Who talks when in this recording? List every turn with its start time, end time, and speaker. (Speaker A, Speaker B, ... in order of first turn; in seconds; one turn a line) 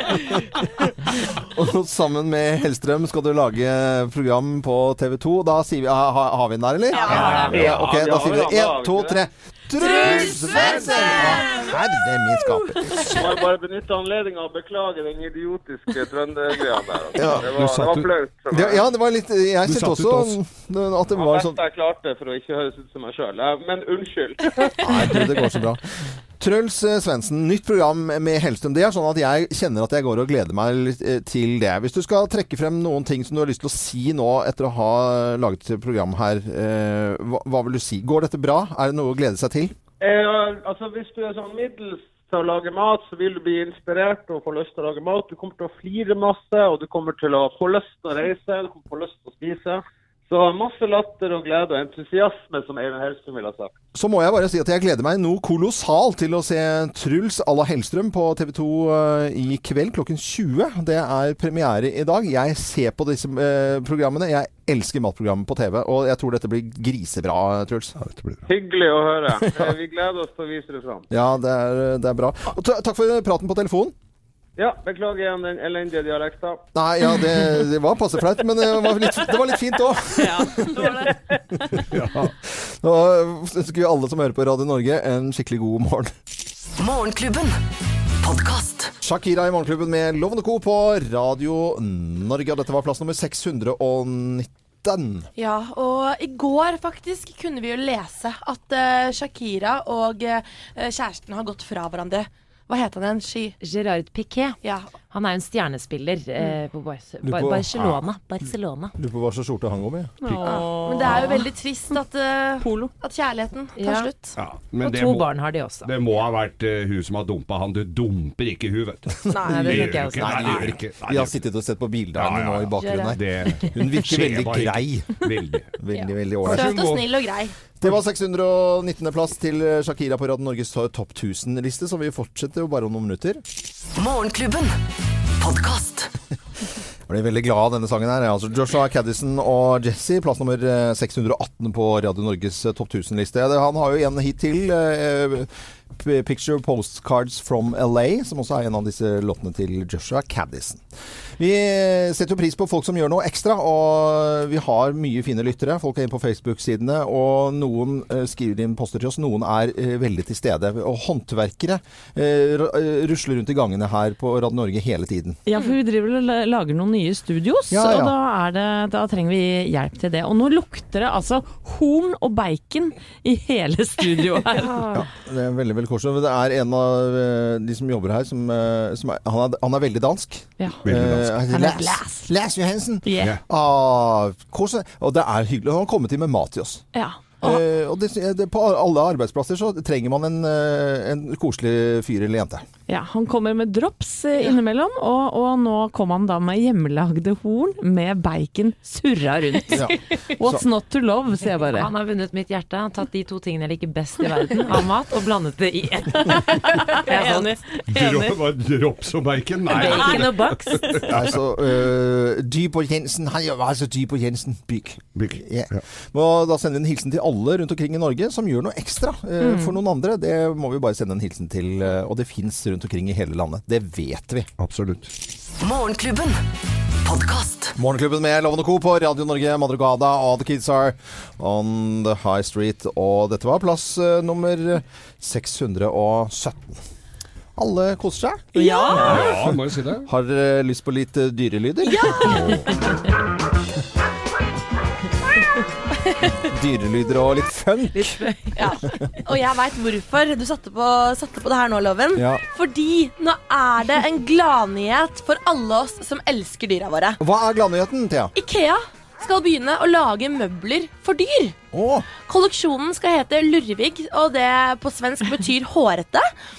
Speaker A: 0.8-13.2
Speaker B: 6.9-7.4
Speaker C: 7.0-7.5
Speaker D: 7.0-7.8
Speaker E: 7.6-9.2
Speaker B: 9.8-11.7
Speaker D: 9.9-11.4
Speaker C: 10.0-11.7
Speaker E: 13.1-18.8
Speaker A: 17.1-17.5
Speaker D: 17.5-18.1
Speaker A: 18.5-21.6
Speaker D: 19.6-20.4
Speaker E: 21.1-24.4
Speaker A: 24.8-39.7
Speaker E: 40.0-53.7
Speaker A: 53.9-67.9
Speaker D: 68.0-68.4
Speaker E: 68.5-71.0
Speaker A: 69.4-69.7
Speaker A: 71.1-73.9
Speaker E: 74.6-76.6
Speaker A: 76.7-80.9
Speaker C: 80.2-81.2
Speaker D: 81.8-82.3
Speaker A: 82.5-86.1
Speaker F: 86.8-87.6
Speaker F: 88.2-88.9
Speaker A: 89.0-95.3
Speaker B: 95.3-103.5
Speaker G: 103.6-104.6
Speaker B: 104.6-104.9
Speaker G: 105.1-108.9
Speaker A: 107.2-107.7
Speaker D: 107.7-108.0
Speaker A: 109.0-110.1
Speaker C: 110.2-111.5
Speaker D: 110.2-110.7
Speaker B: 110.4-114.3
Speaker C: 112.6-112.9
Speaker G: 113.8-114.1
Speaker D: 114.3-115.3
Speaker G: 114.8-115.9
Speaker D: 115.8-121.4
Speaker A: 119.2-125.2
Speaker B: 119.3-119.8
Speaker G: 119.4-120.7
Speaker D: 122.1-125.7
Speaker B: 122.8-123.2
Speaker A: 125.8-127.0
Speaker B: 126.0-127.5
Speaker D: 126.5-127.0
Speaker A: 127.8-133.4
Speaker F: 133.9-134.8
Speaker F: 135.4-136.1
Speaker A: 137.1-150.8
Speaker A: 151.4-165.4
Speaker C: 165.4-175.0
Speaker A: 167.7-168.1
Speaker A: 174.9-186.8
Speaker D: 180.8-181.3
Speaker C: 181.5-182.3
Speaker C: 183.0-183.4
Speaker D: 183.2-183.4
Speaker C: 186.9-187.6
Speaker A: 187.4-192.6
Speaker C: 192.9-201.9
Speaker A: 199.7-200.6
Speaker G: 201.7-207.6
Speaker C: 206.3-208.4
Speaker D: 207.9-211.3
Speaker G: 209.7-211.0
Speaker C: 209.7-211.1
Speaker A: 211.1-224.5
Speaker D: 215.1-215.8
Speaker C: 219.4-219.8
Speaker D: 224.6-225.1
Speaker F: 225.6-226.4
Speaker F: 227.0-227.7
Speaker A: 227.8-236.8
Speaker A: 237.6-239.5
Speaker C: 238.5-239.3
Speaker B: 238.5-239.3
Speaker D: 239.0-240.1
Speaker A: 240.0-242.4
Speaker B: 241.8-242.7
Speaker A: 246.4-248.2
Speaker B: 248.5-257.2
Speaker A: 252.1-252.4
Speaker A: 257.2-258.3
Speaker B: 258.4-261.6
Speaker A: 261.7-262.1
Speaker B: 262.1-266.3